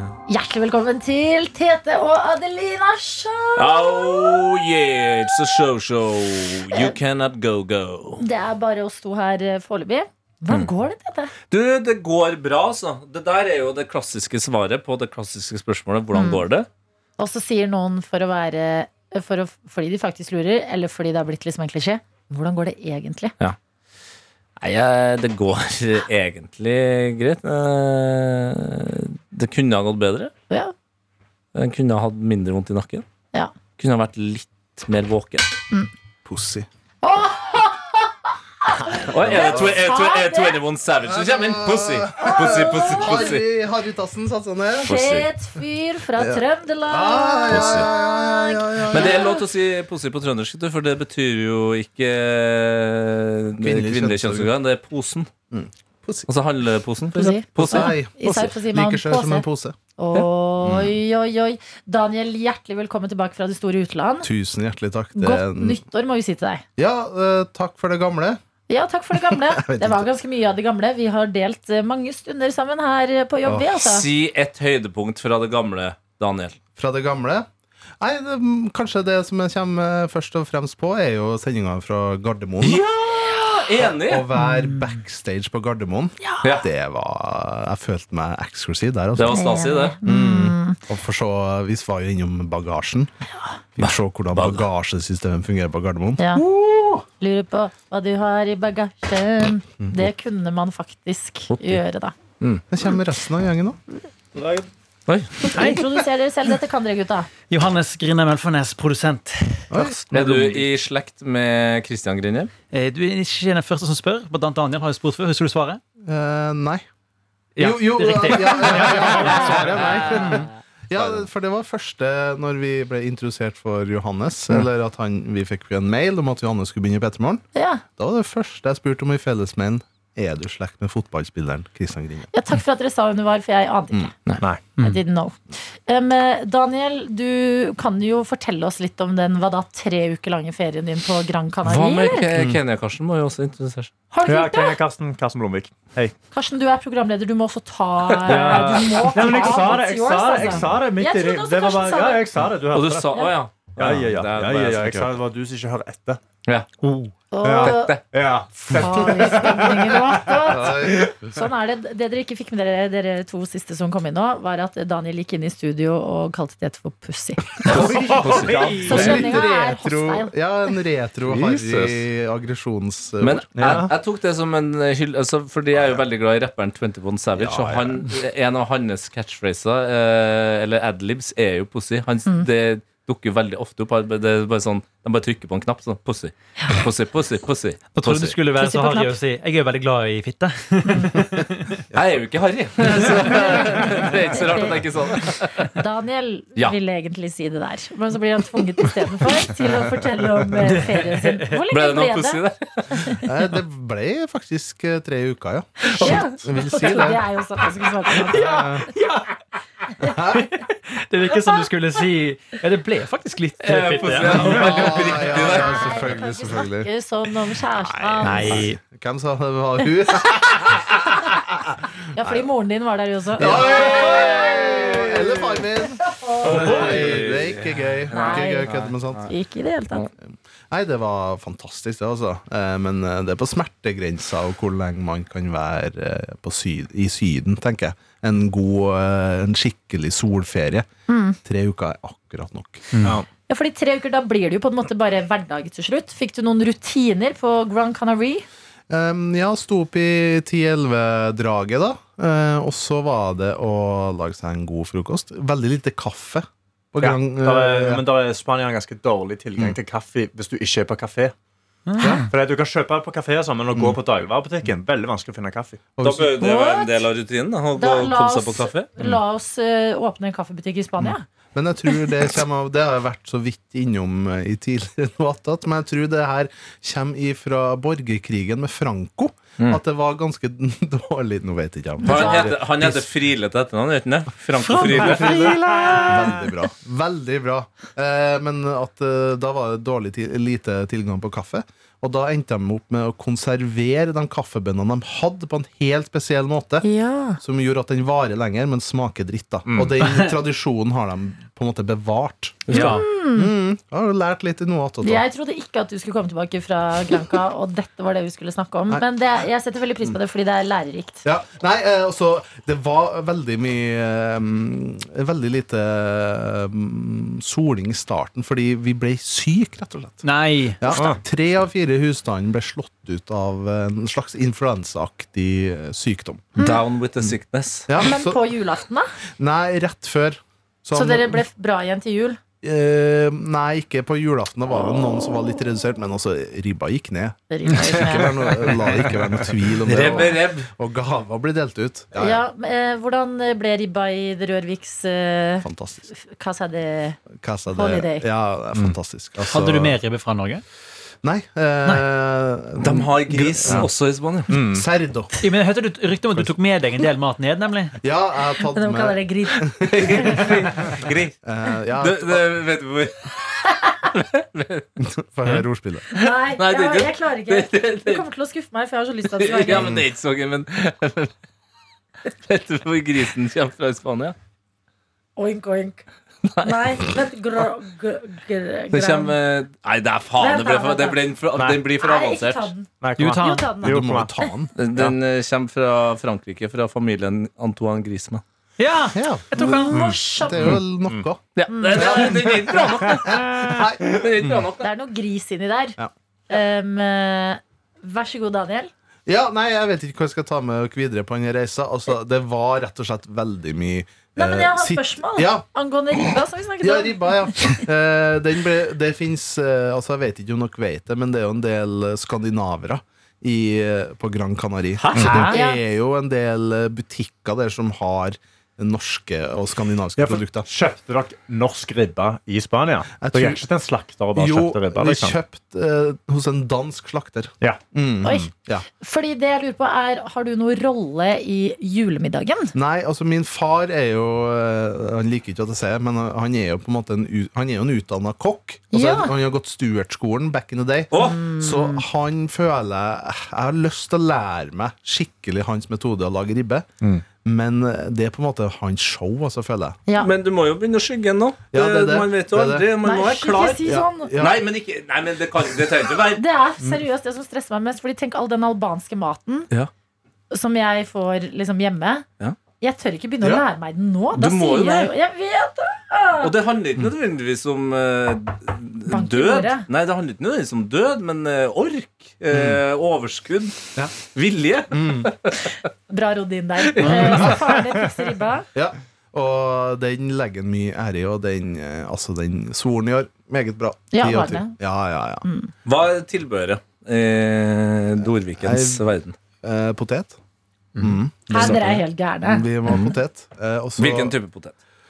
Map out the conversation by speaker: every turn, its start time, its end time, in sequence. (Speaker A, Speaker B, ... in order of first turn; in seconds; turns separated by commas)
Speaker A: 0.3-4.6, Speaker B: 3.6-8.2, Speaker A: 6.7-6.9, Speaker A: 8.2-11.3, Speaker B: 11.5-16.7, Speaker A: 16.1-16.4, Speaker A: 17.2-23.3, Speaker B: 24.6-30.3, Speaker B: 31.5-33.0, Speaker B: 33.8-35.5, Speaker C: 36.2-36.7, Speaker A: 37.0-38.1, Speaker A: 38.6-40.6, Speaker B: 39.1-43.4, Speaker C: 39.1-39.8, Speaker C: 41.0-44.9, Speaker A: 42.2-43.2, Speaker A: 44.8-49.4, Speaker B: 44.8-45.3, Speaker C: 46.2-49.4, Speaker B: 47.5-47.9, Speaker B: 48.9-55.3, Speaker C: 53.6-54.5, Speaker C: 55.5-56.3, Speaker B: 56.3-57.9, Speaker A: 57.1-59.4, Speaker C: 57.5-59.8, Speaker A: 60.0-64.3, Speaker C: 60.6-61.0, Speaker C: 64.2-65.8, Speaker A: 65.2-66.6, Speaker C: 66.8-68.4, Speaker A: 68.7-74.1, Speaker C: 69.1-70.1, Speaker C: 73.4-73.7, Speaker B: 73.7-76.6, Speaker C: 76.8-77.5, Speaker C: 78.0-82.8, Speaker B: 82.6-84.3, Speaker C: 83.7-89.4, Speaker D: 84.5-84.9, Speaker A: 86.2-86.5, Speaker B: 89.2-89.9, Speaker A: 89.3-90.8, Speaker C: 90.0-93.1, Speaker C: 93.8-96.5, Speaker B: 93.8-94.6, Speaker A: 96.2-96.4, Speaker A: 97.2-102.1, Speaker C: 99.8-100.1, Speaker B: 101.5-101.8, Speaker C: 102.7-103.8, Speaker E: 104.3-104.6, Speaker B: 105.1-105.5, Speaker D: 105.4-105.8, Speaker A: 105.5-107.3, Speaker D: 107.5-110.0, Speaker C: 109.7-110.6, Speaker B: 110.1-112.5, Speaker D: 112.7-115.8, Speaker C: 116.0-116.8, Speaker D: 117.5-120.4, Speaker C: 117.6-127.4, Speaker A: 127.5-127.8, Speaker C: 128.0-132.3, Speaker A: 132.3-134.1, Speaker E: 134.4-134.6, Speaker A: 134.8-142.2, Speaker B: 141.6-143.9, Speaker C: 142.3-142.6, Speaker A: 144.1-144.8, Speaker E: 144.2-146.1, Speaker A: 146.3-152.2, Speaker E: 148.2-153.2, Speaker D: 148.3-148.8, Speaker B: 152.7-155.1, Speaker E: 153.8-156.2, Speaker E: 156.8-160.6, Speaker A: 157.3-158.0, Speaker B: 157.6-158.0, Speaker A: 158.5-167.8, Speaker C: 160.4-161.4, Speaker C: 167.6-173.9, Speaker E: 167.7-169.3, Speaker A: 168.7-170.3, Speaker B: 168.8-169.1, Speaker B: 171.3-171.9, Speaker B: 173.2-188.4, Speaker E: 173.6-173.9, Speaker C: 177.4-178.0, Speaker D: 187.9-191.8, Speaker A: 188.6-189.2, Speaker A: 190.8-191.1, Speaker B: 191.9-195.7, Speaker D: 192.9-193.2, Speaker A: 193.0-202.4, Speaker D: 200.6-201.6, Speaker B: 201.7-203.0, Speaker C: 203.2-207.2, Speaker A: 205.8-208.7, Speaker D: 208.1-209.3, Speaker C: 208.3-208.9, Speaker C: 210.0-210.5, Speaker D: 210.3-214.9, Speaker B: 213.6-216.1, Speaker C: 214.3-216.9, Speaker A: 215.2-218.7, Speaker C: 217.7-220.9, Speaker D: 218.2-218.8, Speaker C: 221.5-222.5, Speaker A: 222.1-225.0, Speaker C: 223.4-229.3, Speaker B: 223.5-224.7, Speaker A: 225.9-226.8, Speaker B: 226.4-229.2, Speaker A: 228.1-230.1, Speaker C: 230.7-240.9, Speaker A: 241.1-241.4, Speaker C: 241.4-242.9, Speaker D: 242.9-243.2, Speaker A: 243.5-248.4, Speaker C: 248.9-258.0, Speaker E: 257.0-261.3, Speaker D: 261.9-262.3, Speaker C: 262.0-262.2, Speaker E: 262.3-265.9, Speaker C: 263.7-264.0, Speaker C: 265.9-266.3, Speaker B: 266.0-268.9, Speaker A: 266.4-267.1, Speaker A: 267.8-271.2, Speaker C: 271.0-283.0, Speaker A: 282.0-282.5, Speaker B: 282.0-285.6, Speaker D: 284.7-286.4, Speaker C: 285.0-285.3, Speaker E: 285.1-285.6, Speaker C: 286.0-296.9, Speaker A: 296.8-297.4, Speaker C: 297.4-305.2, Speaker E: 299.7-300.0, Speaker B: 302.7-303.0, Speaker D: 302.7-303.0, Speaker A: 302.7-303.5, Speaker A: 305.0-311.2, Speaker C: 311.2-320.2, Speaker D: 320.2-320.9, Speaker C: 320.8-326.6, Speaker E: 320.9-321.2, Speaker A: 326.6-326.8, Speaker B: 326.6-327.9, Speaker C: 327.9-328.4, Speaker A: 328.0-329.1, Speaker C: 329.4-331.4, Speaker A: 330.9-332.4, Speaker C: 332.6-342.4, Speaker A: 337.5-338.6, Speaker B: 339.8-340.7, Speaker A: 342.1-347.2, Speaker C: 345.6-346.1, Speaker C: 347.4-349.9, Speaker A: 347.7-348.3, Speaker D: 349.4-350.6, Speaker C: 351.2-353.9, Speaker B: 352.8-354.6, Speaker E: 353.6-353.9, Speaker E: 354.5-354.9, Speaker C: 354.6-355.3, Speaker D: 355.4-357.9, Speaker C: 358.0-360.5, Speaker A: 358.6-360.7, Speaker B: 359.9-361.3, Speaker C: 361.4-362.5, Speaker B: 362.0-364.9, Speaker A: 363.7-364.1, Speaker C: 365.0-366.1, Speaker A: 366.1-369.9, Speaker B: 366.2-368.2, Speaker B: 369.3-371.3, Speaker C: 369.8-370.0, Speaker B: 372.3-374.3, Speaker A: 375.4-376.0, Speaker B: 376.4-377.1, Speaker A: 376.6-379.3, Speaker B: 378.9-382.7, Speaker A: 380.4-381.2, Speaker E: 381.6-381.8, Speaker A: 382.0-384.0, Speaker E: 383.0-384.3, Speaker D: 383.2-383.7, Speaker C: 383.8-384.7, Speaker B: 384.8-388.4, Speaker D: 388.8-390.1, Speaker C: 389.1-389.5, Speaker A: 389.6-390.8, Speaker E: 389.9-391.2, Speaker C: 390.3-394.7, Speaker B: 391.6-394.9, Speaker A: 391.7-392.2, Speaker A: 394.8-396.0, Speaker A: 396.5-398.9, Speaker C: 399.2-405.6, Speaker A: 404.4-407.8, Speaker C: 406.2-420.7, Speaker E: 415.1-415.5, Speaker D: 415.1-415.5, Speaker A: 415.5-415.8, Speaker E: 420.2-425.4, Speaker C: 423.2-423.6, Speaker C: 424.3-428.9, Speaker A: 428.2-432.7, Speaker C: 432.7-446.9, Speaker A: 438.9-439.3, Speaker B: 441.1-441.4, Speaker A: 441.1-442.1, Speaker C: 447.4-450.0, Speaker A: 450.1-450.3, Speaker B: 450.2-456.4, Speaker C: 451.7-452.9, Speaker A: 453.0-454.3, Speaker C: 453.8-454.6, Speaker A: 456.3-459.7, Speaker A: 460.5-462.2, Speaker A: 462.8-466.5, Speaker B: 464.3-465.1, Speaker B: 466.4-475.8, Speaker A: 469.1-469.9, Speaker C: 472.5-472.8, Speaker C: 474.9-475.3, Speaker A: 476.1-478.6, Speaker B: 476.8-477.6, Speaker D: 477.0-477.5, Speaker C: 478.7-485.4, Speaker A: 484.1-484.7, Speaker A: 485.4-485.7, Speaker B: 485.8-489.4, Speaker C: 488.6-489.0, Speaker C: 489.6-490.4, Speaker D: 490.9-491.2, Speaker C: 491.0-491.9, Speaker A: 491.5-492.6, Speaker B: 491.6-491.8, Speaker C: 492.4-494.3, Speaker B: 492.9-493.1, Speaker B: 494.0-494.8